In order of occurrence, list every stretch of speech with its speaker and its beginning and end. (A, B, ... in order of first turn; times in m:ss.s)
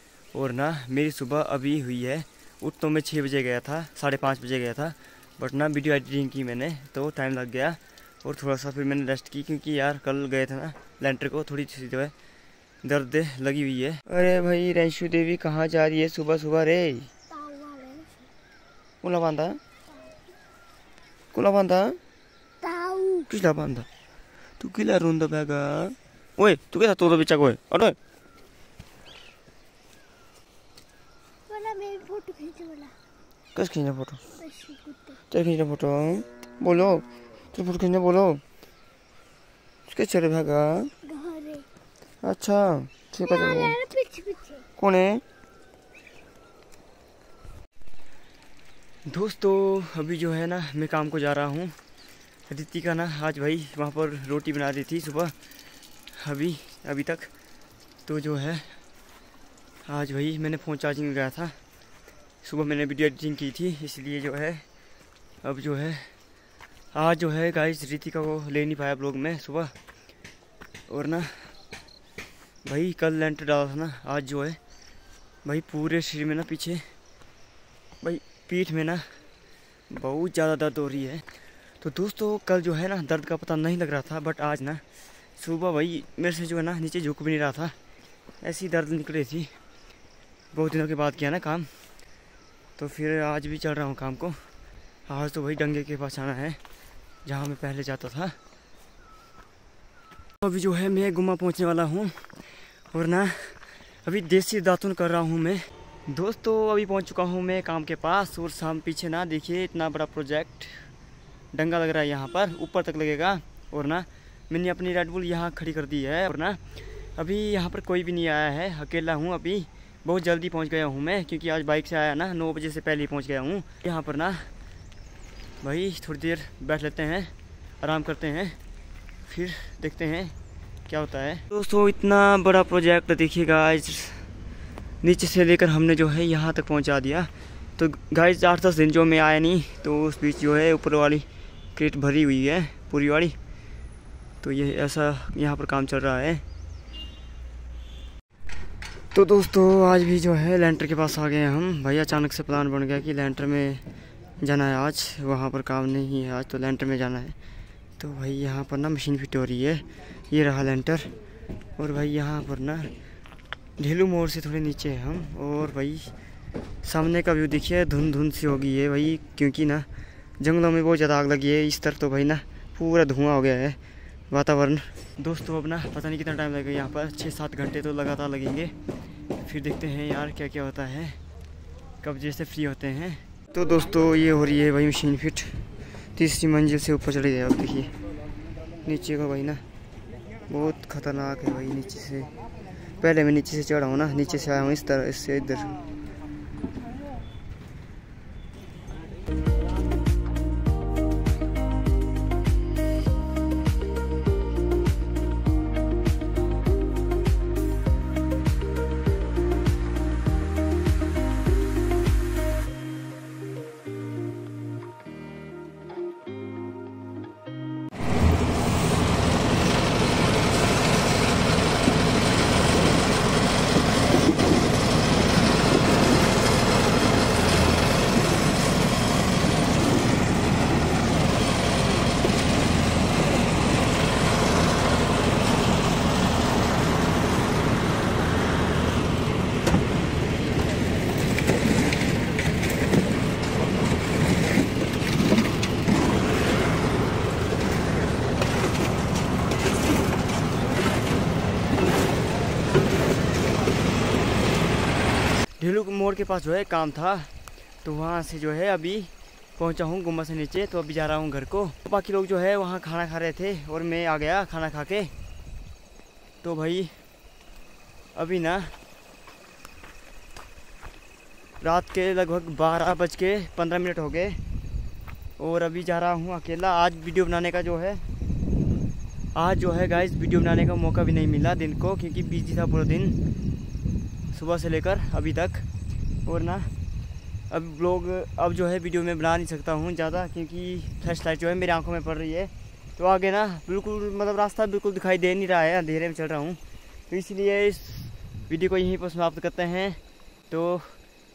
0:00.3-0:12.1 A
0:12.8-0:17.1 A
0:17.3-0:18.3 B
0:19.0-0:19.6 A
0:21.3-0:22.0 A
0:22.6-0:23.3 B
0:23.3-0:23.9 A
0:24.6-0:28.0 A
0:31.5-0:33.0 B
0:33.5-0:34.2 A
0:34.4-0:35.2 B
0:35.3-0:38.4 A
0:39.9-0:40.9 A
0:41.0-0:41.7 B
0:42.2-0:43.8 A
0:43.2-0:44.6 B
0:44.8-0:45.2 A
0:49.1-0:51.8 A
0:52.5-0:55.3 A
0:56.1-0:57.3 A
0:58.0-0:58.8 A
0:59.8-1:01.6 A
1:02.4-1:04.6 A
1:05.4-1:06.1 A
1:06.9-1:09.7 A
1:10.9-1:11.5 A
1:12.6-1:14.6 A
1:15.4-1:16.9 A
1:18.0-1:19.2 A
1:19.9-1:21.2 A
1:21.8-1:24.8 A
1:25.4-1:27.7 A
1:28.4-1:29.5 A
1:30.5-1:31.7 A
1:32.8-1:34.4 A
1:35.1-1:36.6 A
1:37.2-1:38.4 A
1:40.4-1:50.9 A
1:51.5-2:04.5 A
2:05.6-2:08.6 A
2:09.2-2:10.3 A
2:10.9-2:14.3 A
2:15.0-2:23.3 A
2:24.4-2:26.4 A
2:29.1-2:33.8 A
2:34.4-2:37.4 A
2:38.0-2:41.1 A
2:41.8-2:42.9 A
2:43.8-2:46.1 A
2:46.8-2:49.9 A
2:50.4-2:53.8 A
2:54.3-2:58.7 A
2:59.4-3:01.2 A
3:02.0-3:05.6 A
3:06.1-3:08.0 A
3:08.8-3:09.6 A
3:10.5-3:12.3 A
3:13.0-3:15.8 A
4:15.6-4:25.1 A
4:26.4-4:27.0 A
4:28.1-4:28.8 A
4:31.6-4:34.4 A
4:35.4-4:38.0 A
4:39.3-4:43.2 A
4:44.3-4:45.6 A
4:46.2-4:46.7 A
4:47.5-5:01.0 A